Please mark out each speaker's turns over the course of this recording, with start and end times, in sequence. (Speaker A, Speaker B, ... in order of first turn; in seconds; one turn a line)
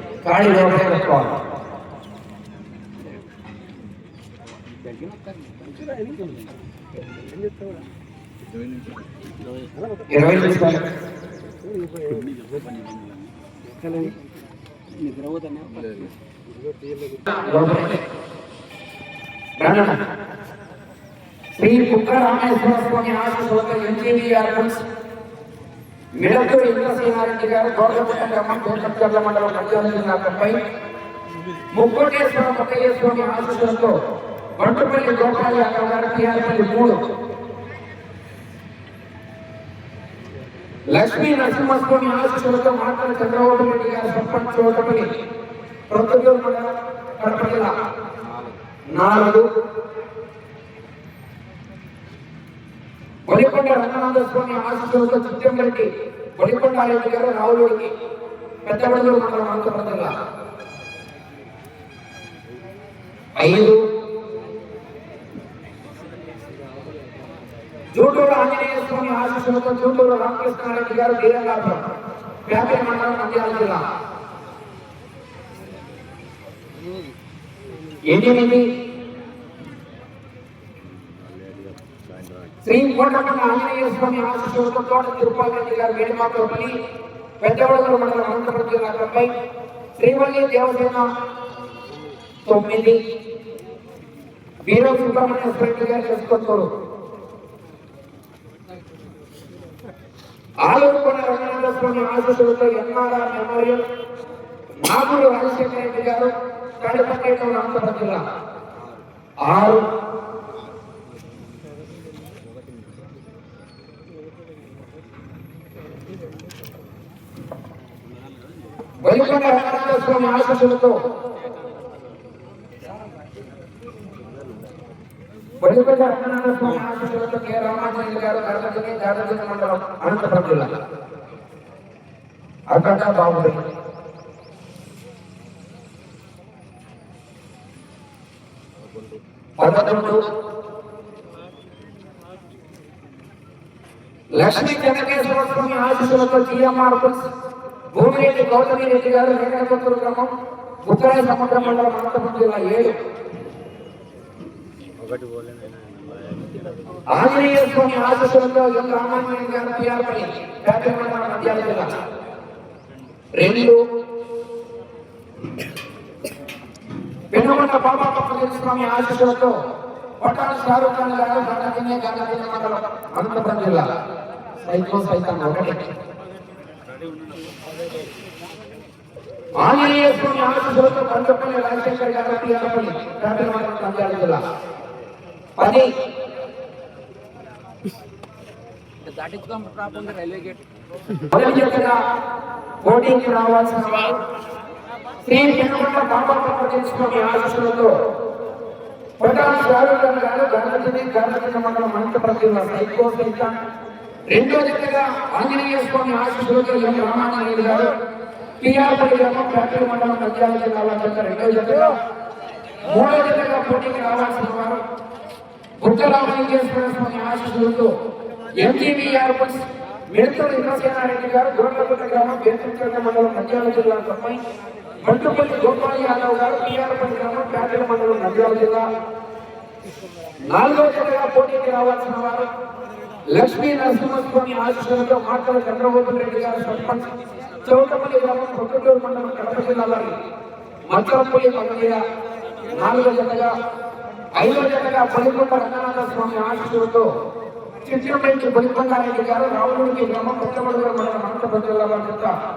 Speaker A: 0.2-1.3
Speaker B: 4.8-6.3
Speaker A: 10.1-10.8
Speaker B: 12.1-13.2
Speaker B: 13.8-14.2
Speaker B: 14.9-16.1
Speaker A: 17.3-18.0
Speaker A: 19.6-20.0
Speaker A: 21.6-24.8
Speaker A: 26.1-30.6
Speaker A: 31.7-34.0
Speaker A: 34.6-37.0
Speaker A: 40.9-45.1
Speaker A: 45.9-47.7
Speaker A: 48.9-49.5
Speaker A: 53.3-55.9
Speaker A: 56.4-57.9
Speaker A: 58.6-60.1
Speaker A: 63.4-63.8
Speaker A: 67.9-71.8
Speaker A: 72.5-73.8
Speaker A: 78.1-78.7
Speaker B: 80.9-82.5
Speaker A: 82.6-86.8
Speaker A: 87.4-89.3
Speaker A: 90.0-91.1
Speaker A: 92.5-93.0
Speaker A: 94.7-96.7
Speaker A: 100.6-103.8
Speaker A: 104.8-108.2
Speaker A: 109.4-109.8
Speaker A: 119.0-121.0
Speaker A: 125.6-130.7
Speaker A: 132.7-133.6
Speaker A: 139.6-140.2
Speaker A: 144.4-147.2
Speaker A: 147.9-150.3
Speaker A: 150.8-152.9
Speaker B: 155.0-157.1
Speaker A: 157.1-161.9
Speaker A: 163.3-163.8
Speaker A: 167.3-169.6
Speaker A: 170.2-173.9
Speaker A: 174.6-175.8
Speaker A: 179.6-184.4
Speaker A: 185.6-185.9
Speaker B: 189.1-190.6
Speaker A: 191.3-192.0
Speaker A: 192.8-194.2
Speaker A: 195.2-197.9
Speaker A: 199.2-203.6
Speaker A: 204.3-207.9
Speaker A: 208.6-211.9
Speaker A: 212.8-214.8
Speaker A: 215.8-217.9
Speaker A: 218.6-224.4
Speaker A: 225.0-228.8
Speaker A: 230.5-232.5
Speaker A: 233.3-237.1
Speaker A: 237.6-240.1
Speaker A: 240.9-242.0
Speaker A: 242.6-243.5
Speaker A: 244.4-247.1
Speaker A: 247.8-252.3